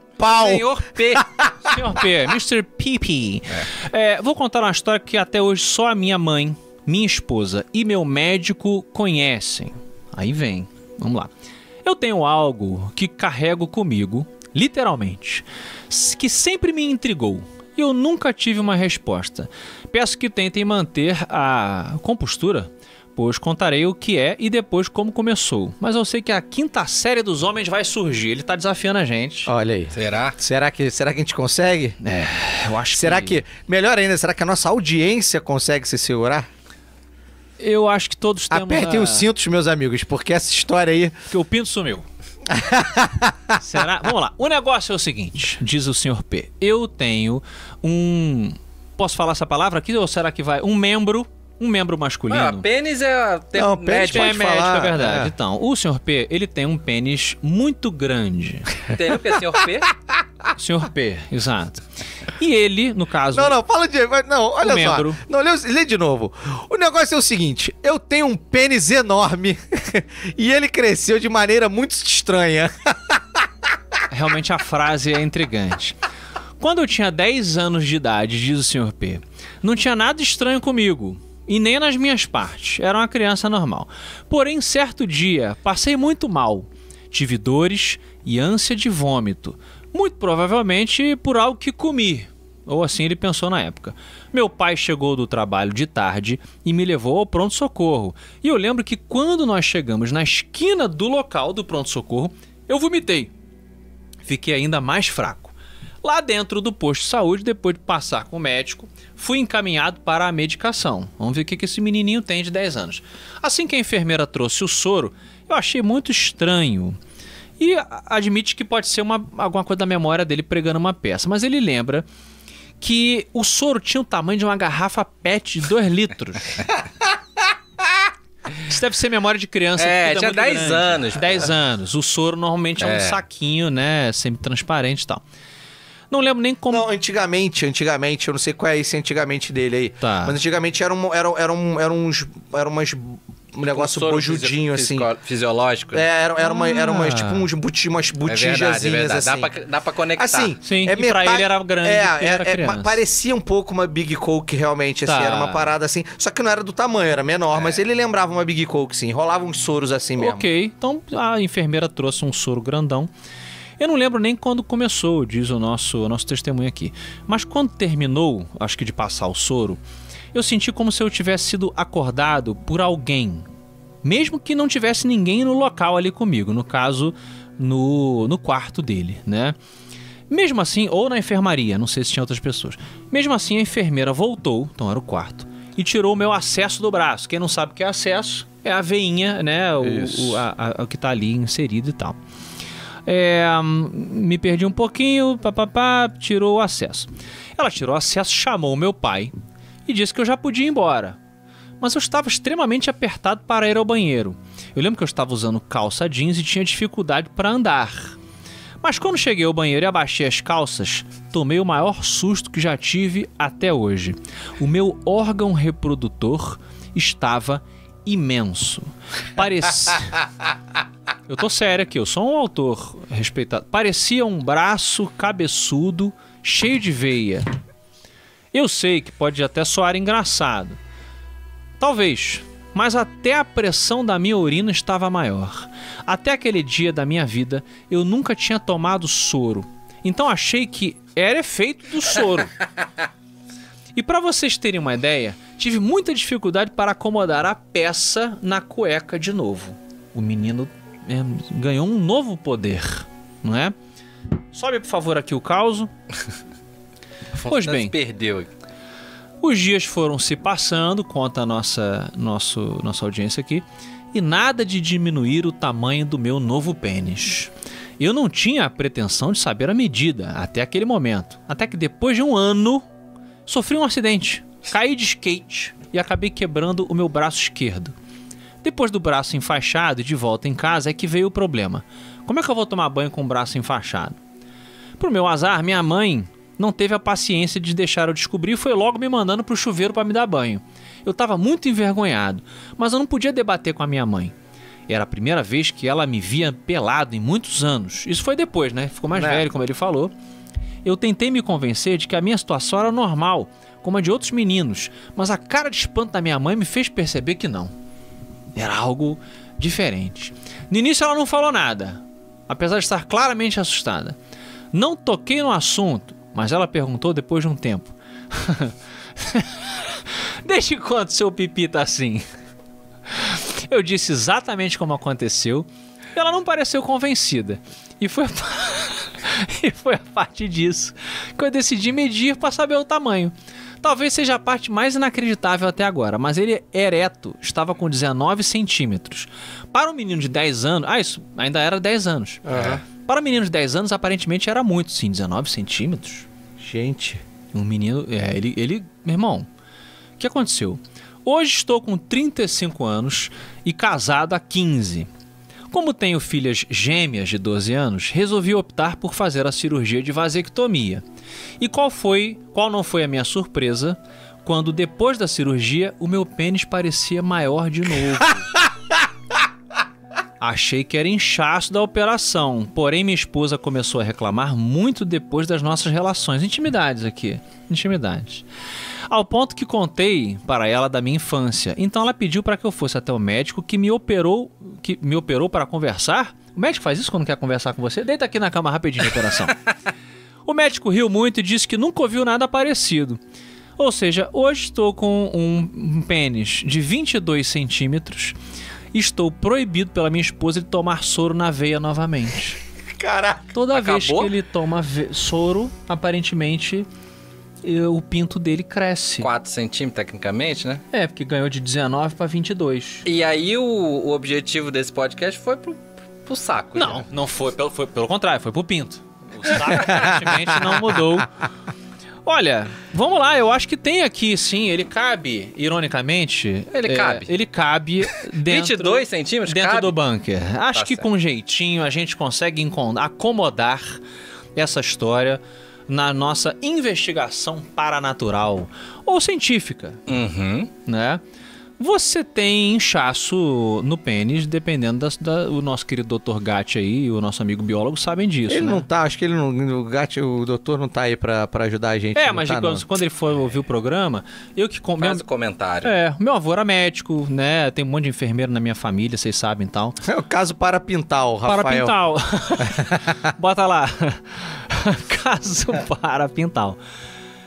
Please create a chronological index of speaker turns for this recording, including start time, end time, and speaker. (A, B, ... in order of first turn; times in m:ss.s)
0:00.2-0:01.3 A
0:00.2-0:01.8 B
0:01.6-0:11.3 C
0:11.8-0:29.5 C
0:29.4-0:32.0 B
0:29.9-0:30.4 A
0:32.0-0:33.4 C
0:32.9-0:36.5 B
0:37.6-0:39.3 C
0:38.5-0:41.2 B
0:41.3-0:42.0 C
0:42.5-0:43.6 B
0:43.5-0:52.6 C
0:52.3-0:54.3 A
0:53.5-0:55.3 B
0:54.1-0:58.9 C
0:58.9-0:59.9 A
1:00.5-1:01.8 C
1:02.4-1:03.6 C
1:03.3-1:13.5 B
1:04.6-1:05.2 C
1:14.1-1:16.0 C
1:16.6-1:43.3 C
1:44.2-1:45.5 C
1:46.0-1:57.0 C
1:57.6-2:02.0 C
2:02.8-2:06.6 C
2:08.6-2:15.2 C
2:09.8-2:11.5 A
2:12.8-2:13.2 A
2:16.1-2:16.9 C
2:16.7-2:25.1 B
2:20.0-2:20.4 C
2:23.6-2:26.0 A
2:25.9-2:29.5 B
2:26.4-2:27.4 C
2:28.2-2:30.5 A
2:30.2-2:40.5 B
2:30.6-2:33.0 C
2:35.0-2:35.7 C
2:40.2-2:43.1 C
2:43.8-2:49.8 C
2:50.3-2:53.5 C
2:54.0-2:59.6 C
3:00.3-3:12.2 C
3:09.8-3:10.4 B
3:13.0-3:19.3 C
3:19.8-3:21.2 C
3:21.8-3:28.2 C
3:28.8-3:40.2 C
3:41.3-3:47.5 C
3:48.5-3:50.8 C
3:51.8-4:02.5 C
4:03.9-4:13.7 C
4:14.5-4:15.9 C
4:17.3-4:18.5 A
4:17.4-4:17.9 C
4:19.4-4:32.8 C
4:33.4-4:37.9 C
4:38.6-4:44.2 C
4:45.0-4:54.3 C
4:54.9-5:00.1 C
4:59.1-4:59.5 B
5:00.8-5:07.7 C
5:08.5-5:14.2 C
5:14.7-5:22.2 C
5:23.1-5:46.3 C
5:42.4-5:42.8 B
5:42.5-5:42.8 A
5:46.6-5:47.2 B
5:47.5-5:49.5 C
5:50.2-5:55.1 C
5:55.7-6:01.0 C
6:01.6-6:08.6 C
6:10.4-6:18.4 C
6:19.1-6:29.6 C
6:30.4-6:33.2 C
6:33.8-6:38.3 C
6:38.9-6:42.6 C
6:43.0-6:43.5 B
6:43.5-6:46.9 C
6:43.7-6:44.3 A
6:47.6-6:49.3 C
6:49.2-6:50.8 A
6:50.9-6:53.0 C
6:53.0-6:57.0 A
6:56.8-7:01.3 C
6:59.7-7:00.2 B
7:02.2-7:14.0 C
7:06.7-7:07.3 A
7:08.4-7:10.0 A
7:10.8-7:11.0 A
7:14.6-7:20.0 C
7:20.1-7:20.7 A
7:20.8-7:21.2 C
7:21.8-7:28.8 C
7:28.5-7:32.8 B
7:32.1-7:35.2 C
7:35.0-7:35.9 A
7:35.8-7:40.0 C
7:40.0-7:41.9 B
7:41.4-7:46.8 C
7:42.6-7:43.1 B